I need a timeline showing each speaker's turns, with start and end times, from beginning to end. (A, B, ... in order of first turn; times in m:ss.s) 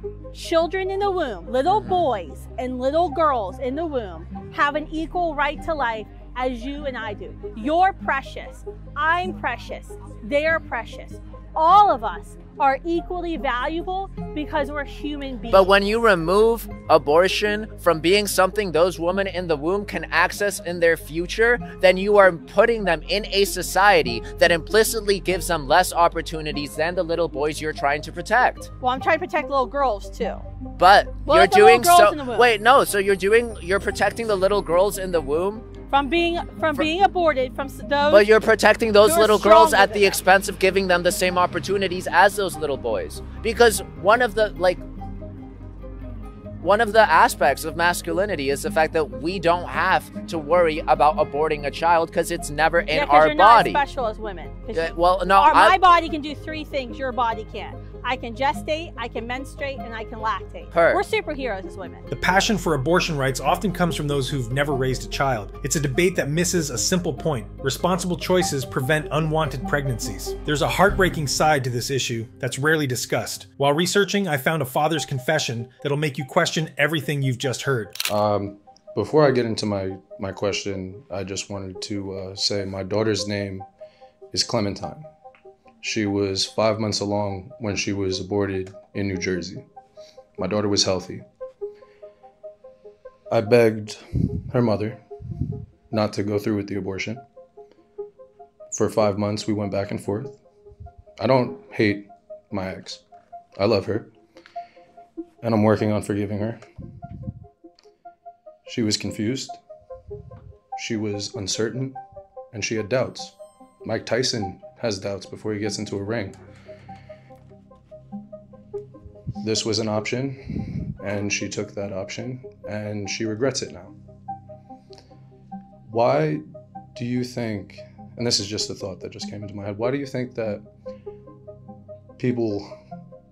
0:00.3-0:15.7 A
0:01.7-0:02.0 B
0:15.5-0:28.7 B
0:28.8-0:30.4 A
0:30.8-0:35.6 B
0:31.2-0:32.5 A
0:35.9-0:38.3 A
0:38.1-0:44.8 B
0:39.0-0:40.2 A
0:46.6-0:53.8 B
0:52.9-1:02.0 A
0:54.7-0:55.8 B
1:00.7-1:01.0 B
1:02.1-1:17.9 C
1:18.1-1:23.7 D
1:24.3-1:25.1 D
1:25.8-1:29.6 D
1:30.4-1:31.2 D
1:33.3-1:35.0 D
1:35.9-1:37.2 D
1:38.7-1:40.4 D
1:41.2-1:43.0 D
1:43.6-1:44.1 D
1:45.4-1:46.6 D
1:48.6-1:49.6 D
1:50.8-1:52.0 D
1:52.5-1:56.4 D
1:59.4-2:03.9 D
2:05.9-2:06.4 D
2:06.9-2:10.6 D
2:12.2-2:12.7 D